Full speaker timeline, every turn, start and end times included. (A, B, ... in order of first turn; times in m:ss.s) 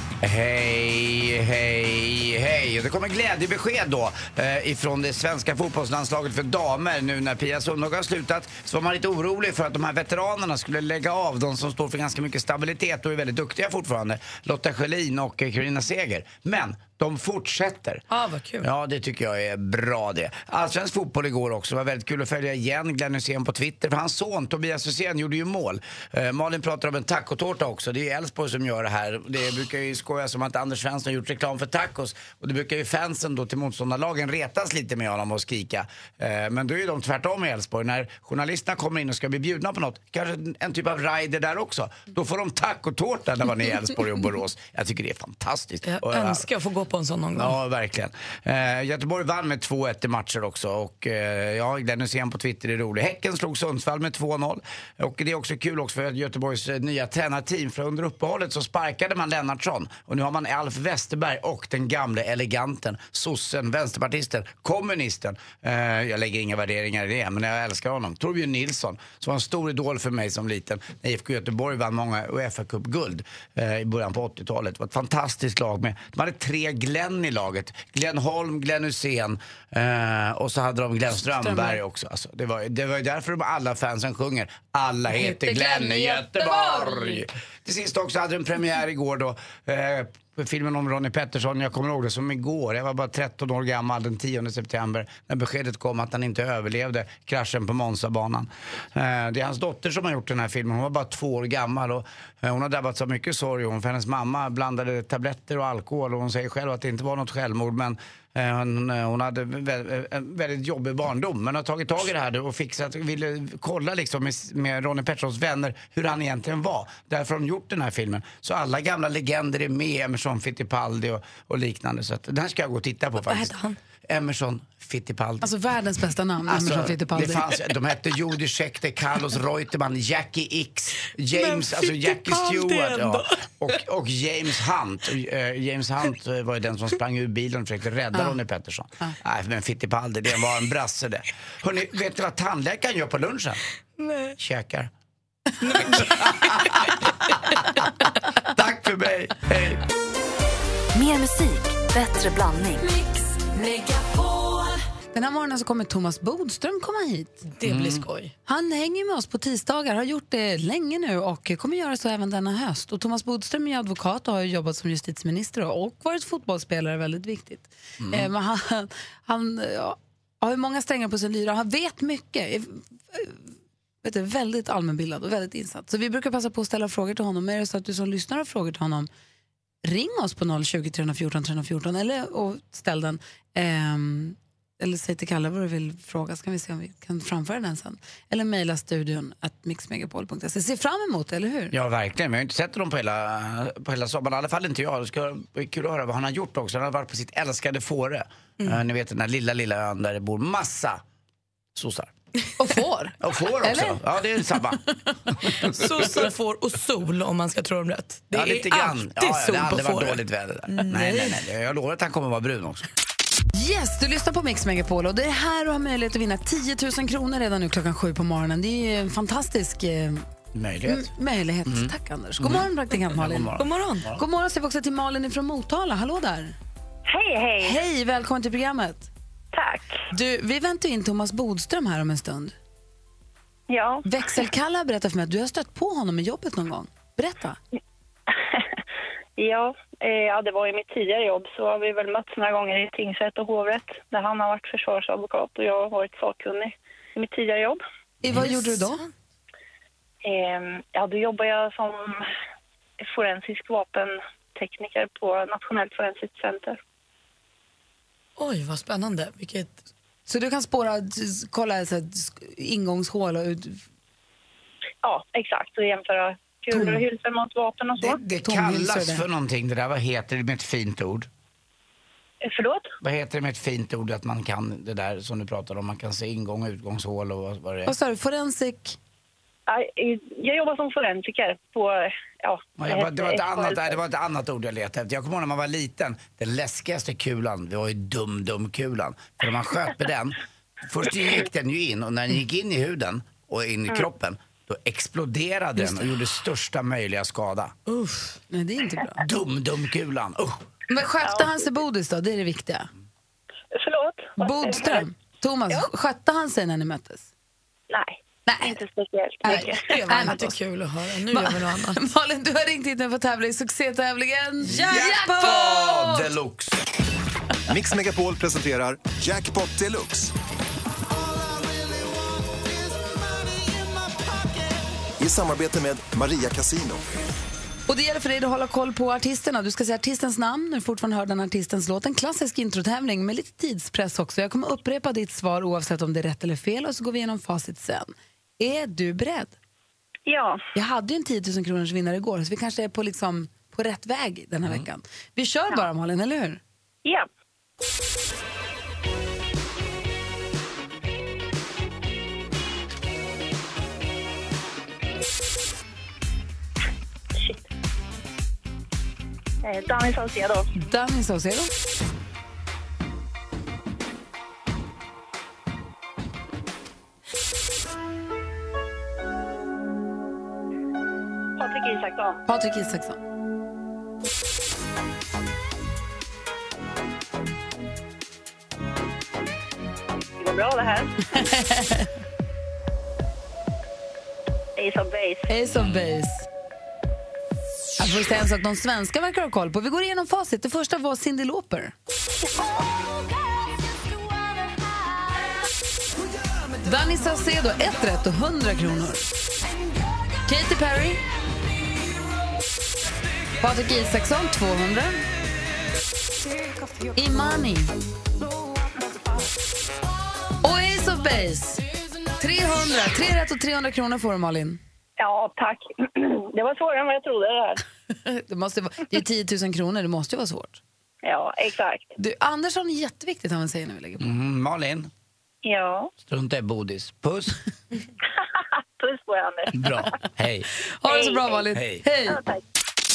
0:00.2-0:18.0 A
0:18.1-0:18.7 B
0:18.6-0:46.4 A
0:45.8-0:47.6 B
0:47.3-2:03.5 A
1:21.2-1:21.8 C
1:25.1-1:27.2 C
2:03.2-2:03.8 B
2:04.1-2:05.5 A
2:05.4-2:07.5 C
2:06.4-2:23.6 A
2:11.3-2:13.4 B
2:24.0-2:24.3 B
2:24.4-2:24.9 A
2:25.6-2:26.6 B
2:25.7-2:27.8 A
2:28.4-2:29.8 A
2:30.9-2:32.8 D
2:33.7-2:34.5 B
2:35.1-2:37.4 C
2:37.5-2:38.3 B
2:37.6-2:38.1 A
2:38.4-2:53.4 C
2:48.0-2:48.3 A
2:54.0-2:59.1 C
2:59.8-3:11.7 C
3:11.7-3:21.0 A
3:21.7-3:22.1 A
3:22.6-3:24.0 C
3:23.2-3:24.8 A
3:25.6-3:31.4 B
3:28.3-3:32.8 A
3:33.5-3:40.2 C
3:40.5-3:41.1 A
3:40.8-3:43.5 C
3:41.6-3:44.2 A
3:43.6-3:44.1 B
3:44.1-3:46.5 C
3:47.1-3:47.8 E
3:47.6-3:49.1 C
3:49.5-3:50.0 E
3:50.1-3:52.5 C
3:53.7-3:54.0 E
3:54.0-3:57.6 C
3:59.4-4:07.8 E
4:08.2-4:09.0 C
4:08.3-4:09.1 B
4:10.2-4:12.2 E
4:13.0-4:16.8 E
4:18.4-4:19.8 B
4:20.3-4:23.8 C
4:25.0-4:28.2 E
4:26.7-4:27.0 C
4:28.0-4:31.3 A
4:28.4-4:29.2 C
4:32.4-4:32.9 E
4:33.0-4:37.9 A
4:37.8-4:39.0 C
4:39.7-4:44.0 E
4:42.8-4:57.7 A
4:57.9-4:58.4 B
4:58.5-4:59.2 C
4:59.2-5:00.6 A
5:00.9-5:02.9 C
5:01.2-5:01.5 E
5:03.7-5:05.0 E
5:04.4-5:07.3 C
5:07.9-5:10.3 E
5:08.5-5:08.8 C
5:09.4-5:10.5 C
5:09.5-5:12.0 B
5:11.3-5:16.3 C
5:14.6-5:16.8 A
5:17.7-5:20.3 F
5:25.2-5:27.2 F
5:27.9-5:39.6 C
5:40.2-5:40.6 E
5:40.7-5:46.6 C
5:59.6-6:00.6 E
6:00.8-6:01.7 C
6:11.6-6:12.4 E
6:12.5-6:13.2 C
6:20.4-6:21.1 E
6:21.3-6:22.1 C
6:24.8-6:25.5 E
6:25.5-6:26.4 C
6:28.0-6:31.9 C
6:36.8-6:39.3 C
6:40.4-6:41.2 C
6:43.6-6:45.2 C
6:47.1-6:47.9 C
6:50.6-6:51.8 C
6:52.4-6:54.8 C
6:55.2-6:57.8 E
6:58.2-7:00.8 C
7:01.2-7:02.1 E
7:02.2-7:04.3 C
7:04.2-7:05.1 A
7:05.6-7:06.1 E
7:06.2-7:07.6 A
7:09.0-7:09.8 E
7:09.7-7:10.7 A
7:11.0-7:12.4 C
7:11.1-7:11.4 E
7:11.7-7:12.0 A